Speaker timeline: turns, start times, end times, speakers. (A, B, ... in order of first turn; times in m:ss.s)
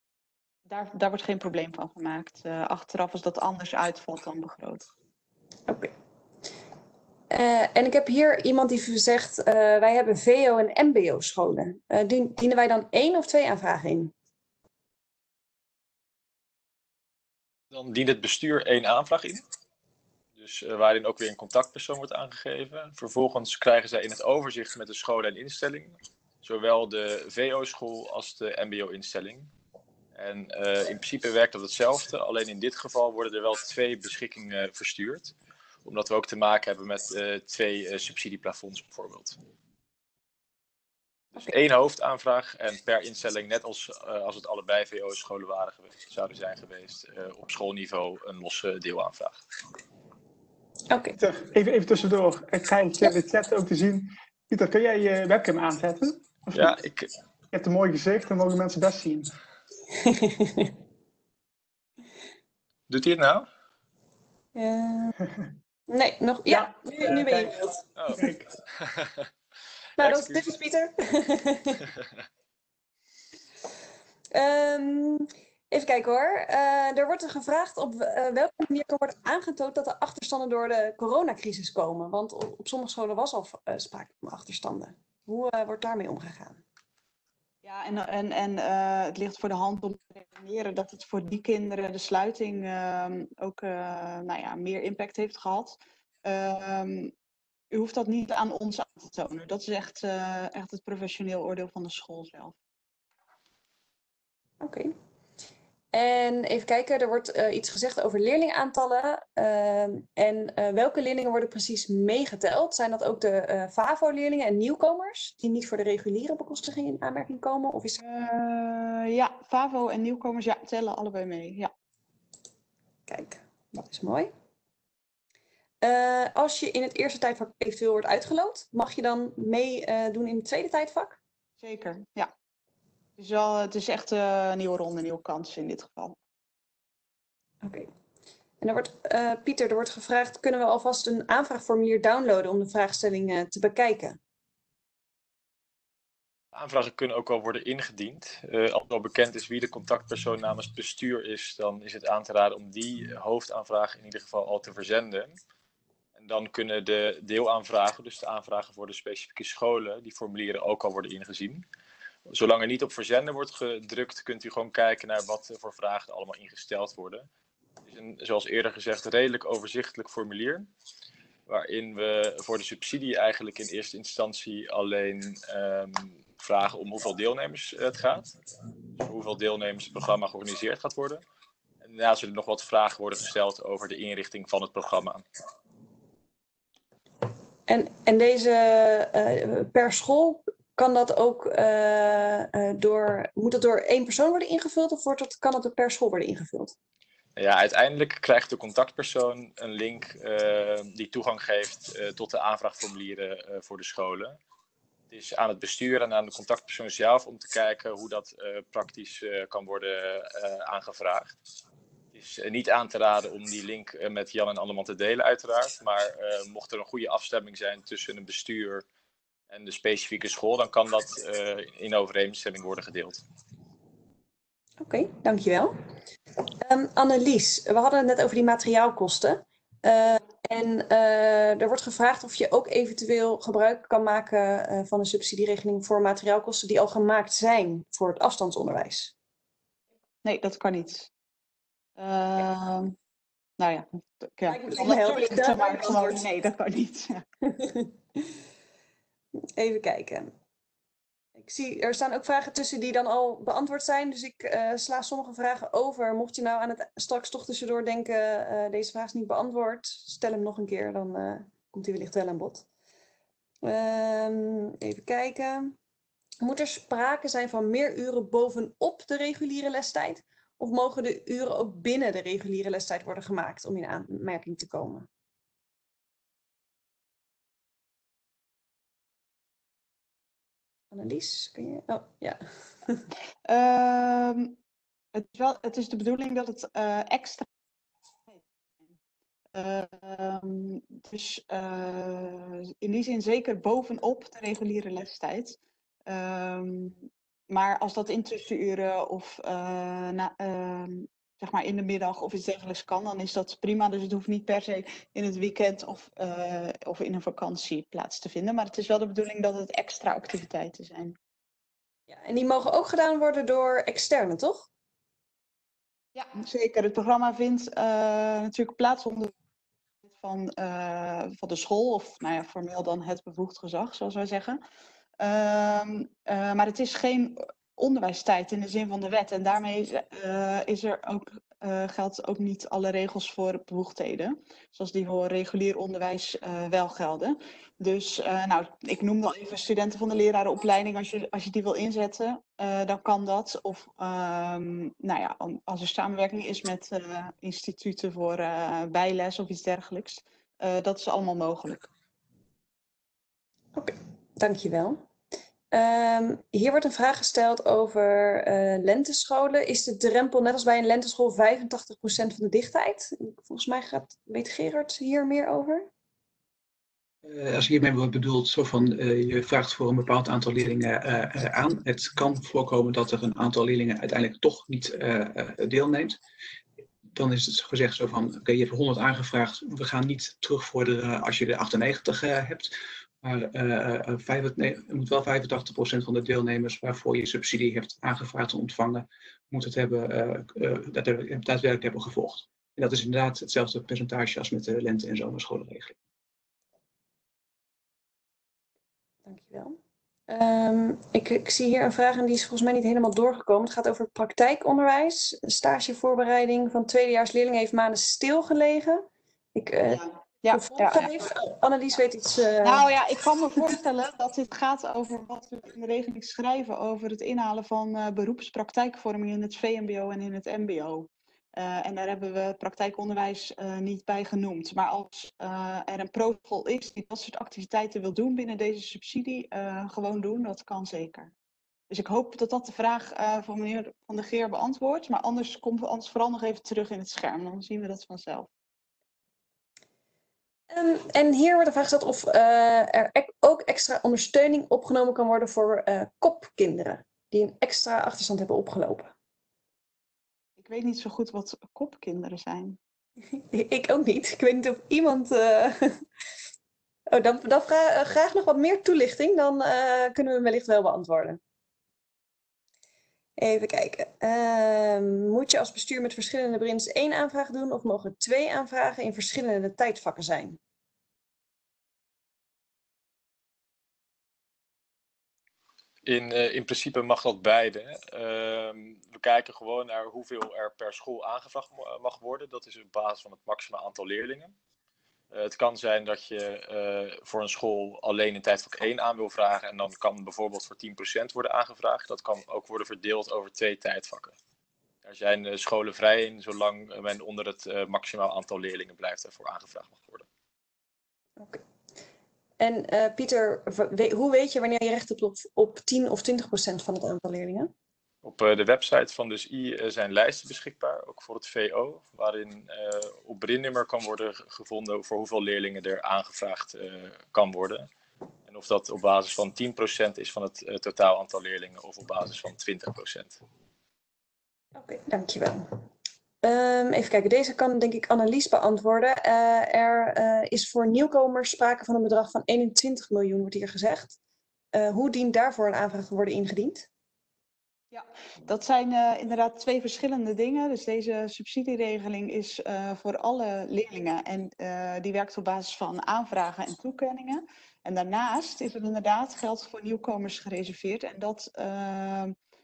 0:00.7-0:04.9 A
0:07.3-0:14.1 B
0:17.7-0:19.4 C
0:20.4-0:29.5 C
0:30.2-0:39.4 C
0:41.3-0:49.4 C
0:50.9-0:51.2 B
0:51.2-0:56.8 D
0:56.5-0:57.1 C
0:57.5-0:59.3 D
1:00.0-1:00.7 B
1:02.9-1:03.5 C
1:04.6-1:05.2 B
1:05.9-1:07.8 B
1:06.5-1:07.6 D
1:08.0-1:09.3 C
1:08.1-1:08.5 D
1:10.0-1:11.9 B
1:10.0-1:10.4 C
1:14.3-1:26.6 B
1:27.6-1:37.1 A
1:37.7-1:42.6 A
1:44.6-1:44.9 B
1:45.9-1:58.0 B
1:58.0-2:01.7 A
2:03.1-2:04.3 B
2:05.8-2:11.2 B
2:11.6-2:12.3 A
2:13.2-2:16.2 A
2:17.6-2:17.9 B
2:18.6-2:24.2 B
2:26.5-2:35.4 C
2:36.2-2:41.6 C
2:42.3-2:47.3 C
2:47.8-2:50.7 C
2:51.5-2:58.4 C
2:59.0-3:01.2 C
3:01.8-3:05.2 C
3:07.7-3:16.7 B
3:17.4-3:24.4 C
3:25.1-3:31.4 C
3:32.1-3:38.8 C
3:39.5-3:43.2 C
3:44.8-3:45.7 B
3:46.6-3:59.1 B
4:00.2-4:01.1 A
4:02.0-4:03.0 A
4:03.6-4:07.2 A
4:04.5-4:06.2 B
4:07.5-4:08.4 B
4:09.6-4:10.3 B
4:11.4-4:22.6 B
4:23.6-4:25.8 B
4:26.4-4:35.1 B
4:40.9-4:43.1 B
4:43.5-4:44.6 A
4:45.1-4:47.5 A
4:49.5-5:11.2 A
5:12.1-5:14.7 B
5:16.2-5:19.3 A
5:20.1-5:24.6 A
5:25.2-5:51.9 A
5:53.8-5:55.0 B
5:55.7-6:05.9 B
6:07.2-6:16.2 E
6:17.1-6:36.0 E
6:39.3-6:39.8 B
6:40.3-6:52.8 B
6:49.9-6:51.1 A
6:52.6-7:11.3 A
7:11.9-7:18.5 A
7:20.7-7:29.1 B
7:30.6-7:32.8 A
7:33.4-7:36.0 B
7:37.1-7:41.4 B
7:43.4-7:50.6 B
7:56.1-8:04.5 C
8:05.3-8:14.4 C
8:15.0-8:20.3 C
8:22.6-8:27.7 B
8:28.2-8:37.9 C
8:38.5-8:43.4 C
8:44.8-8:45.7 B
8:46.4-8:54.2 B
8:54.7-8:56.9 B
8:57.9-9:12.4 A